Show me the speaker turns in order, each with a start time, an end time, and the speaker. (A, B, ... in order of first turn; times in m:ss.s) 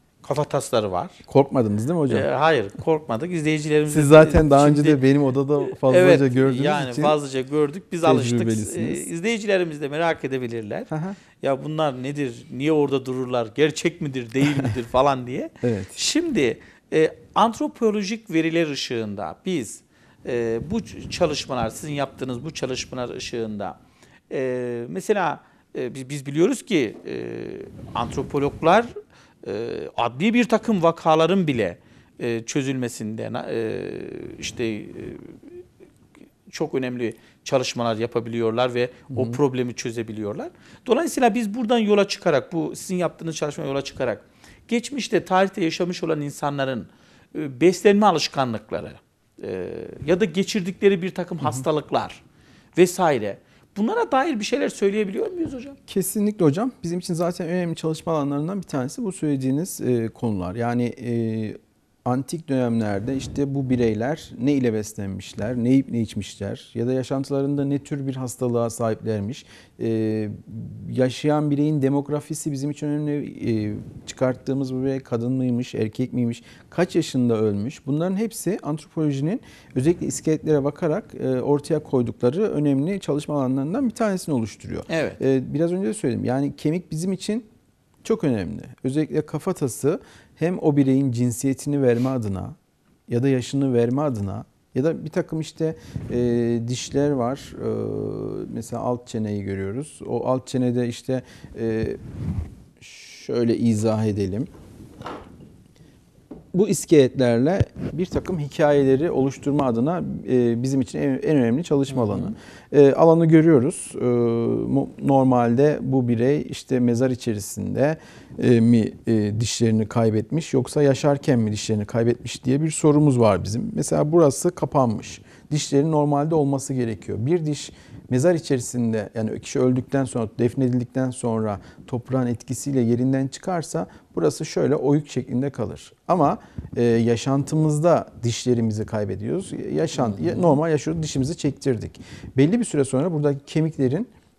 0:00.2-0:01.2 A
0:01.3-0:02.3 B
0:02.1-0:05.0 A
0:03.9-0:07.2 B
0:05.6-0:23.8 A
0:08.0-0:09.0 B
0:10.9-0:11.2 B
0:15.6-0:16.0 B
0:24.3-0:28.9 A
0:29.4-0:35.4 A
0:36.5-0:52.2 A
0:39.1-0:39.4 B
0:52.8-0:55.8 A
0:55.9-1:27.5 B
1:24.9-1:25.2 A
1:28.0-1:32.6 B
1:33.1-1:42.0 B
1:42.8-1:44.5 B
1:46.5-2:24.1 B
1:51.9-1:52.4 A
2:20.0-2:20.5 A